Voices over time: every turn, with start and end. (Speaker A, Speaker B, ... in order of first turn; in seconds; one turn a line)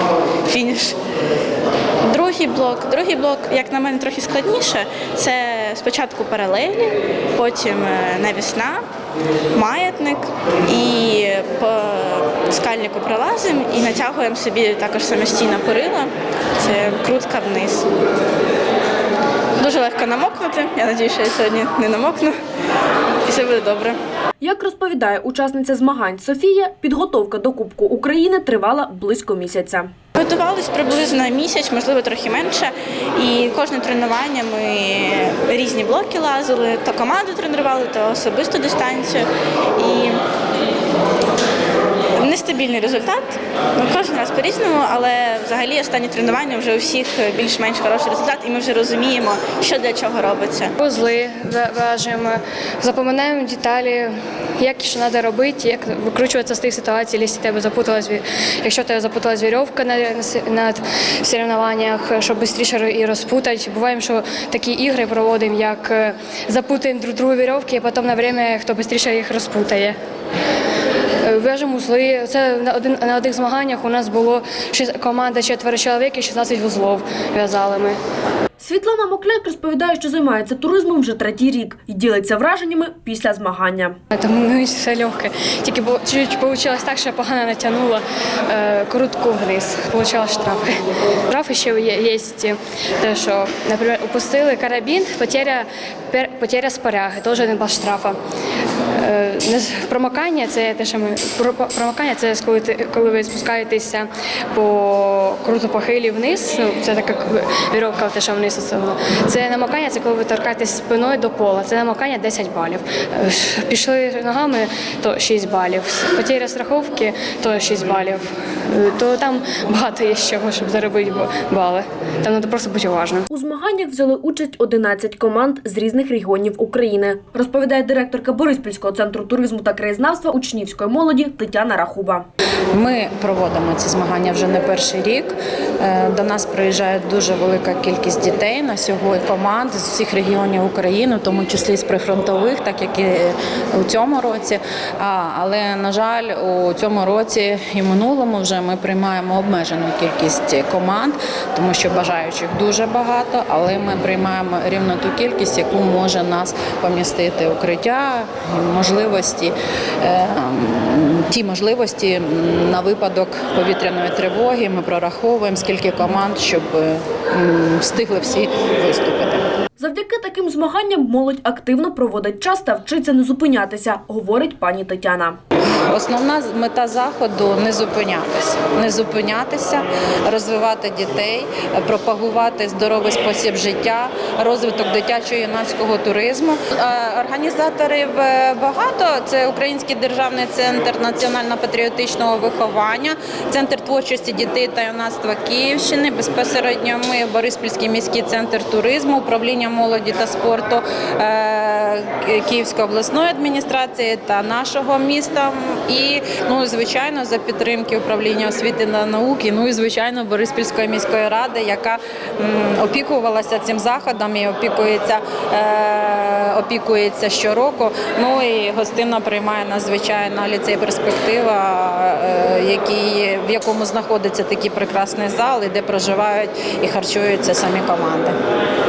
Speaker A: 0.5-1.0
Speaker A: 2.1-8.8
Speaker A: 9.5-17.9
Speaker A: 19.6-22.4
Speaker A: 23.3-24.0
Speaker B: 24.4-29.9
Speaker A: 30.2-40.2
Speaker A: 42.2-50.8
Speaker C: 50.8-70.0
Speaker C: 71.2-78.0
Speaker B: 78.6-84.0
Speaker C: 84.1-98.2
Speaker C: 99.0-123.3
Speaker B: 123.3-132.3
Speaker D: 132.7-169.4
Speaker B: 169.8-175.4
Speaker D: 175.9-228.3